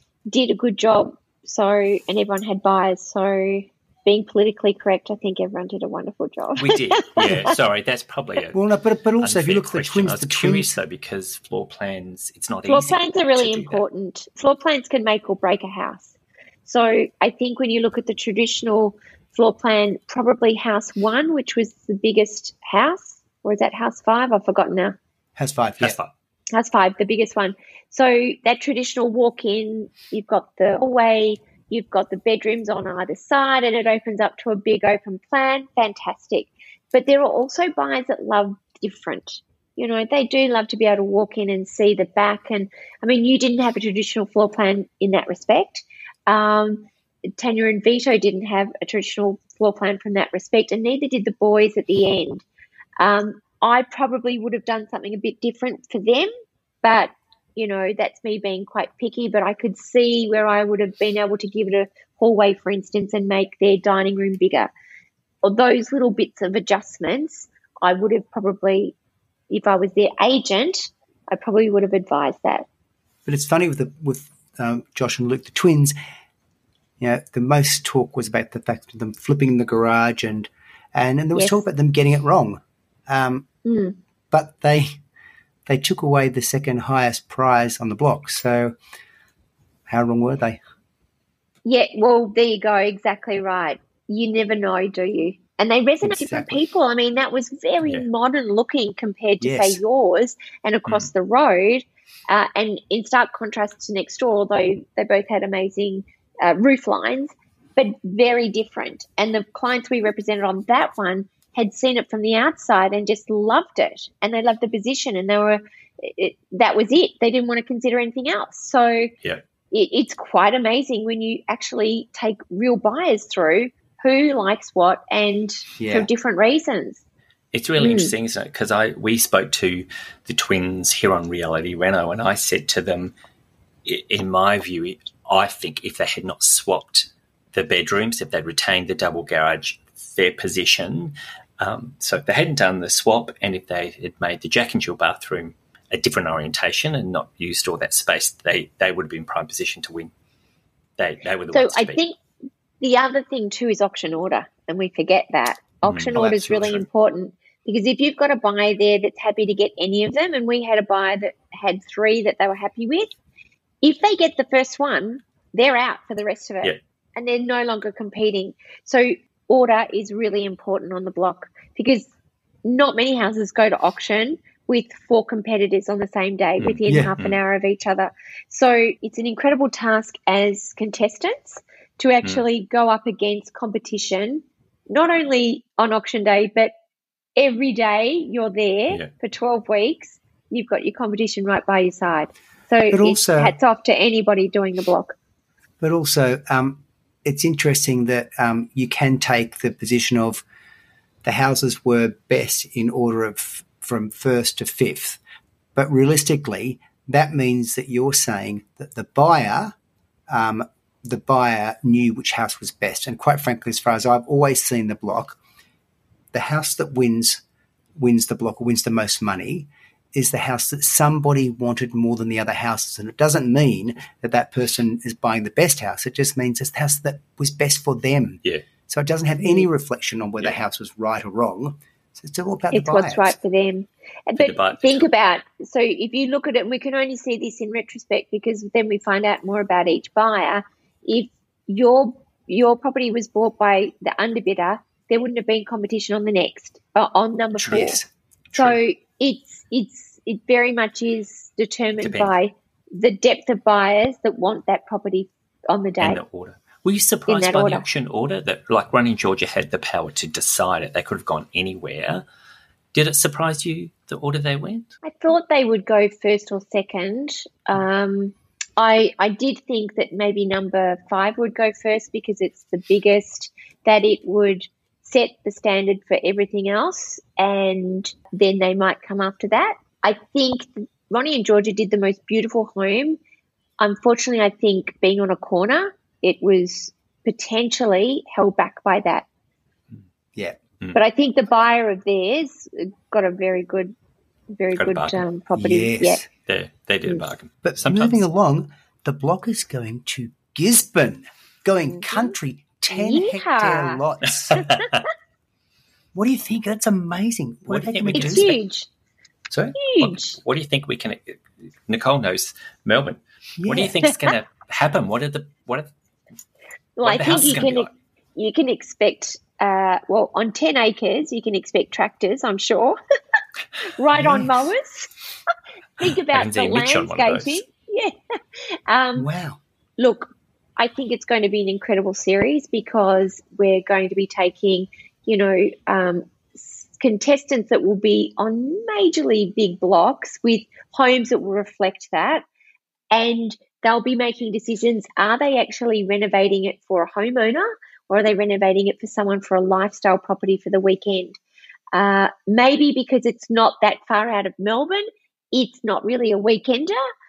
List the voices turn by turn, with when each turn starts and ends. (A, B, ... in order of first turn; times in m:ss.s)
0:00.3-0:07.4 A
0:06.6-0:08.6 B
0:08.5-0:10.7 C
0:09.2-0:13.8 B
0:12.7-0:16.1 A
0:16.6-0:25.0 A
0:25.4-0:26.0 C
0:25.8-0:26.1 B
0:26.5-0:52.4 A
0:53.0-0:56.3 A
0:56.8-1:04.7 A
1:05.4-1:08.9 A
1:09.5-1:12.7 A
1:13.2-1:15.9 C
1:17.0-1:23.5 C
1:21.3-1:21.6 A
1:23.6-1:24.0 A
1:24.3-1:25.0 C
1:25.7-1:28.7 C
1:29.9-1:30.6 C
1:31.6-1:59.1 A
1:36.0-1:36.6 C
1:39.4-1:39.8 C
1:59.7-2:07.0 A
2:05.8-2:06.1 C
2:07.5-2:13.1 B
2:07.8-2:08.1 A
2:13.8-2:30.1 B
2:31.0-2:32.0 B
2:31.5-2:32.2 A
2:32.8-2:43.1 A
2:35.8-2:36.8 B
2:36.1-2:36.8 C
2:43.8-2:52.1 A
2:52.6-3:06.7 A
2:56.6-2:57.4 B
2:56.9-2:57.1 C
3:07.4-3:15.2 A
3:12.9-3:13.5 C
3:15.8-3:20.4 C
3:21.2-3:25.2 C
3:25.8-3:29.8 C
3:30.3-3:35.4 C
3:36.3-3:37.4 C
3:38.0-3:53.4 C
3:49.4-3:49.7 A
3:52.7-4:08.0 A
3:54.4-3:55.1 B
4:07.6-4:08.0 B
4:07.8-4:08.0 C
4:08.5-4:16.2 A
4:12.0-4:12.3 B
4:16.0-4:22.2 B
4:17.3-4:17.8 A
4:22.9-4:24.9 B
4:25.0-4:43.2 A
4:43.8-4:49.2 A
4:50.9-4:53.9 A
4:54.6-4:56.2 A
4:54.7-4:55.2 B
4:55.5-4:56.3 C
4:56.4-4:58.2 B
4:57.6-5:04.6 C
5:01.9-5:02.3 A
5:02.9-5:04.0 A
5:04.5-5:04.9 B
5:04.6-5:04.8 A
5:06.1-5:08.5 C
5:07.7-5:08.6 B
5:08.1-5:08.9 A
5:09.5-5:15.9 B
5:09.8-5:10.4 A
5:13.6-5:13.9 C
5:17.0-5:23.0 A
5:17.0-5:17.9 B
5:24.0-5:25.1 A
5:26.0-5:28.1 A
5:26.3-5:27.6 B
5:28.9-5:29.3 A
5:29.2-5:29.6 C
5:30.0-5:42.4 A
5:43.1-5:51.4 A
5:51.9-5:57.0 A